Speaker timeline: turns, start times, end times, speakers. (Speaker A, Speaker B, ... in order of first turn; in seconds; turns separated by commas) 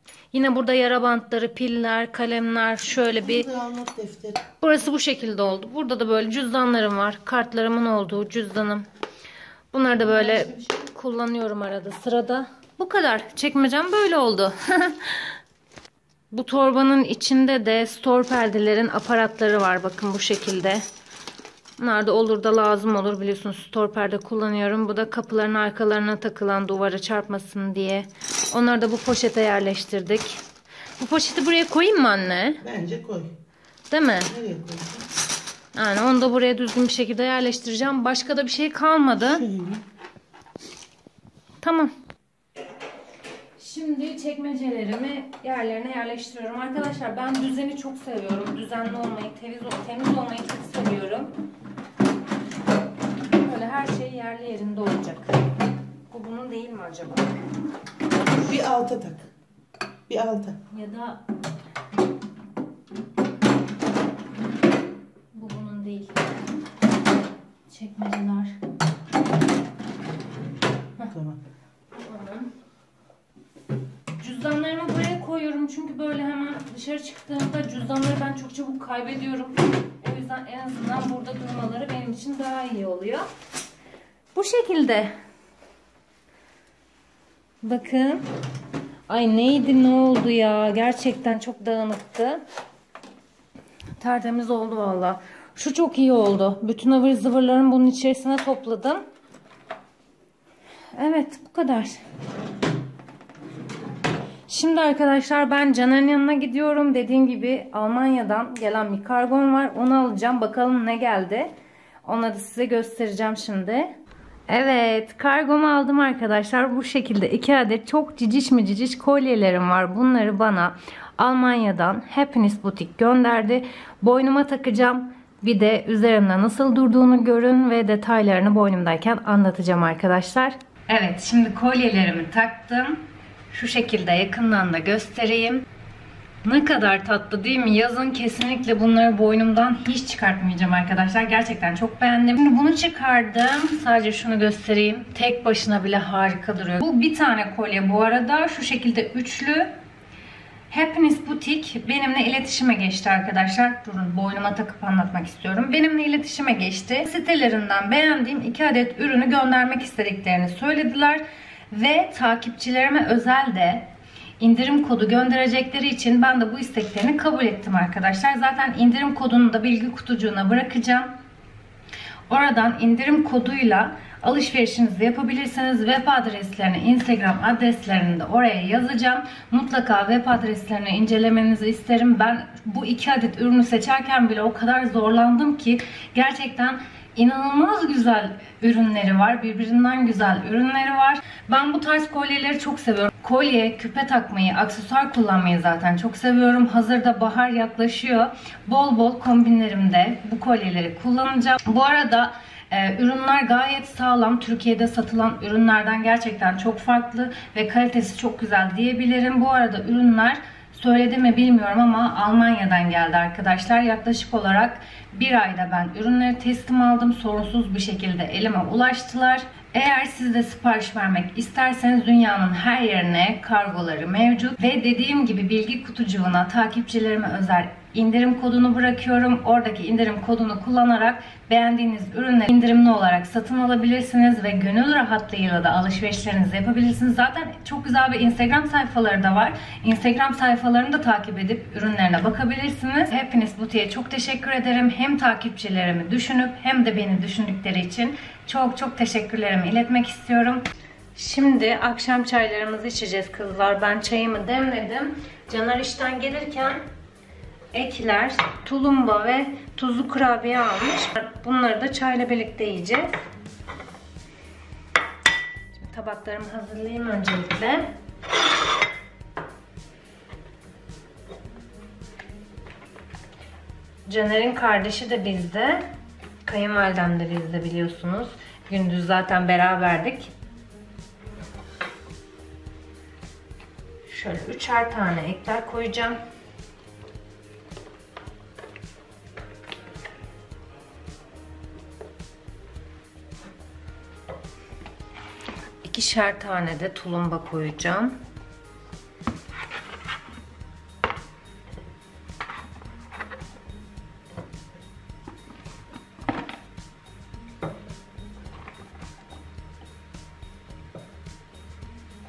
Speaker A: 0.3-3.5, Speaker B: 3.2-4.4, Speaker A: 4.6-8.9, Speaker A: 9.7-15.4, Speaker A: 16.3-20.9, Speaker A: 21.8-30.4, Speaker A: 31.0-32.6, Speaker B: 32.6-33.4, Speaker A: 33.9-34.4, Speaker B: 34.3-35.1, Speaker A: 35.7-39.5, Speaker B: 39.4-39.8, Speaker A: 41.6-41.9, Speaker A: 43.6-51.3, Speaker A: 53.3-55.3, Speaker A: 56.1-57.3, Speaker B: 58.4-59.3, Speaker B: 60.1-60.6, Speaker A: 60.7-61.2, Speaker A: 65.3-66.2, Speaker A: 67.7-68.6, Speaker B: 71.1-71.4, Speaker A: 71.9-72.5, Speaker A: 74.2-83.2, Speaker A: 84.3-85.1, Speaker A: 87.6-88.2, Speaker A: 89.1-92.4, Speaker A: 94.0-99.0, Speaker A: 100.9-102.0, Speaker A: 104.5-111.5, Speaker A: 112.0-113.9, Speaker A: 114.5-135.6, Speaker A: 136.4-149.7, Speaker A: 150.7-171.2, Speaker A: 172.3-250.6, Speaker A: 251.1-256.8, Speaker A: 257.7-263.1, Speaker A: 265.7-267.9, Speaker A: 274.1-275.9, Speaker A: 276.4-280.3, Speaker A: 284.1-286.2, Speaker A: 295.8-298.2